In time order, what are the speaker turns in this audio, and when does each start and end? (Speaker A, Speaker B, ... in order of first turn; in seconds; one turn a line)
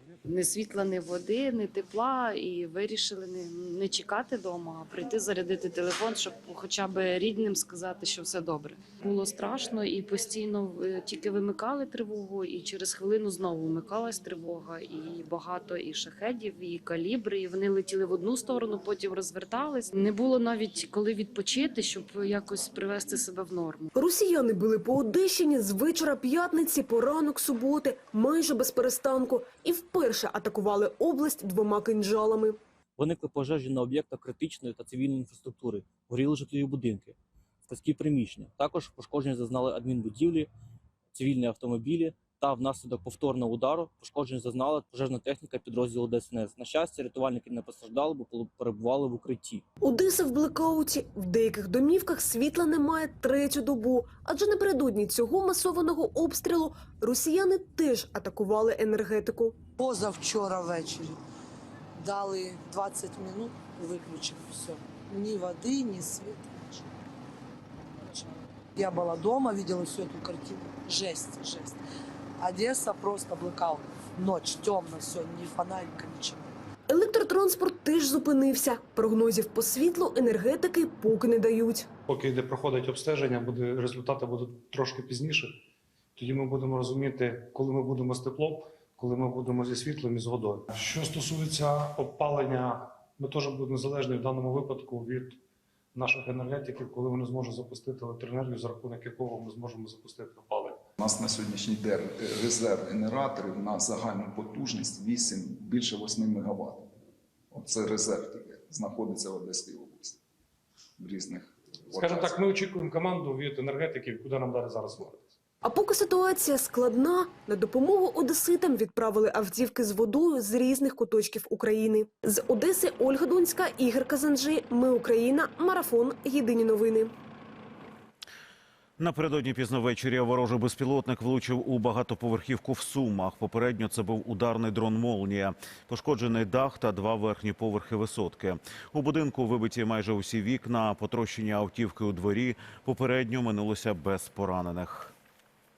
Speaker A: 0.2-23.9
Speaker B: 23.9-32.6
Speaker C: 33.0-37.1
Speaker C: 37.7-40.5
Speaker C: 41.1-49.6
Speaker B: 49.8-59.6
Speaker D: 59.8-61.2
Speaker D: 62.0-66.9
Speaker D: 68.8-71.8
Speaker D: 72.4-76.5
Speaker B: 76.9-81.9
Speaker E: 82.1-85.5
Speaker E: 86.2-95.4
Speaker E: 96.0-100.8
Speaker F: 101.0-106.9
Speaker F: 107.5-110.2
Speaker F: 111.0-112.3
Speaker E: 111.9-115.2
Speaker B: 115.6-127.1
Speaker G: 129.0-145.1